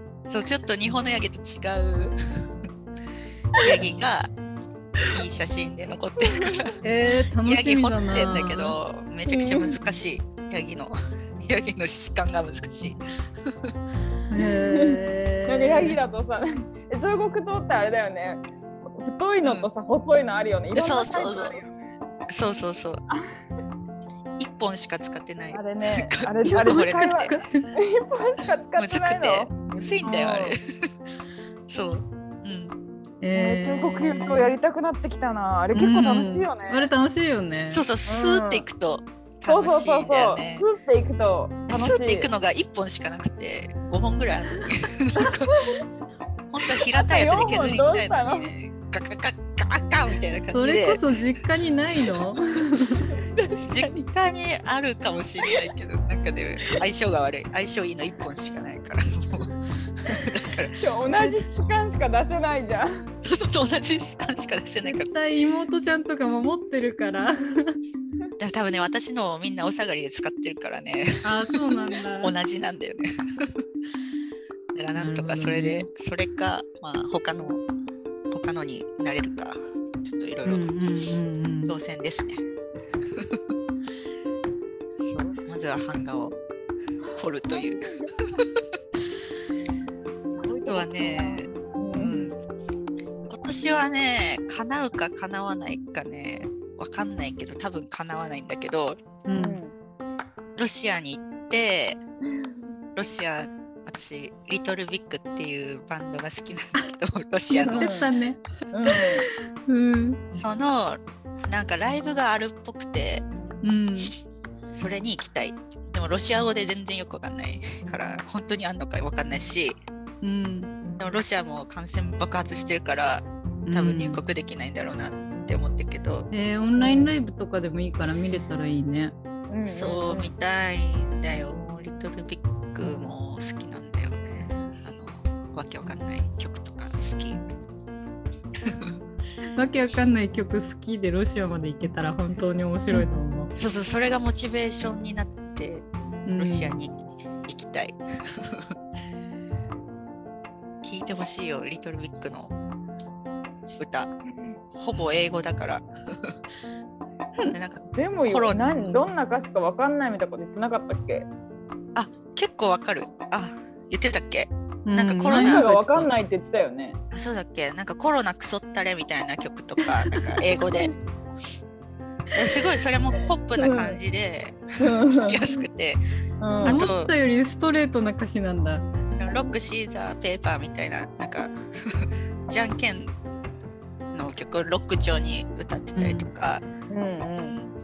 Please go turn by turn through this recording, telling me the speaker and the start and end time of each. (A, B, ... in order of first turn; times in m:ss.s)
0:00.3-0:02.2 A
0:03.6-0:04.3 A
0:05.1-0:06.8 A
0:06.2-0:06.8 B
0:06.8-0:08.8 C
0:07.4-0:13.7 A
0:09.3-0:09.8 B
0:14.3-0:16.0 C
0:14.4-0:21.7 B
0:19.4-0:19.7 A
0:20.7-0:21.6 A
0:22.3-0:23.0 A
0:24.4-0:27.3 A
0:25.5-0:30.6 B
0:26.5-0:27.7 C
0:28.8-0:30.6 A
0:31.7-0:32.8 A
0:33.2-0:34.5 C
0:33.3-0:36.9 B
0:35.7-0:37.8 C
0:37.7-0:40.7 A
0:38.1-0:38.7 B
0:39.5-0:42.3 B
0:41.7-0:45.7 A
0:45.2-0:45.8 B
0:46.5-0:51.0 A
0:46.9-0:48.5 B
0:50.5-0:53.1 C
0:53.1-0:54.1 B
0:53.6-1:00.8 A
1:00.8-1:03.0 B
1:03.2-1:05.1 A
1:04.8-1:07.8 C
1:08.4-1:11.6 A
1:11.2-1:12.4 C
1:12.2-1:13.6 A
1:14.7-1:17.6 A
1:15.0-1:15.9 C
1:18.3-1:20.7 A
1:20.4-1:21.8 C
1:21.7-1:22.4 A
1:23.1-1:23.4 A
1:25.0-1:26.4 A
1:27.2-1:28.6 A
1:27.5-1:28.1 B
1:30.4-1:32.2 B
1:30.6-1:32.4 A
1:33.3-1:39.0 A
1:39.3-1:39.6 C
1:39.3-1:39.7 B
1:40.6-1:42.0 A
1:43.0-1:47.9 A
1:47.6-1:48.1 B
1:47.7-1:49.1 C
1:48.7-1:49.3 B
1:49.6-1:50.2 C
1:50.3-1:53.2 A
1:53.6-1:54.1 C
1:54.7-1:59.8 A
2:00.2-2:00.7 C
2:01.0-2:06.3 A
2:03.7-2:04.2 C
2:06.3-2:09.2 C
2:06.8-2:07.1 B
2:09.5-2:10.3 B
2:09.7-2:17.4 A
2:18.6-2:19.0 A
2:19.6-2:23.5 C
2:23.6-2:28.7 A
2:26.3-2:26.8 C
2:30.8-2:32.6 A
2:33.8-2:34.1 A
2:34.8-2:36.4 A
2:37.5-2:39.0 A
2:38.0-2:41.3 B
2:42.0-2:45.7 A
2:44.9-2:46.1 C
2:45.3-2:47.0 B
2:47.1-2:50.9 A
2:52.3-2:56.0 A
2:53.6-2:54.0 B
2:54.8-2:55.6 B
2:56.4-2:56.8 B
2:56.6-2:57.1 A
2:56.6-2:58.8 C
2:59.2-3:03.1 A
3:04.1-3:06.6 A
3:06.0-3:06.3 C
3:06.9-3:07.6 B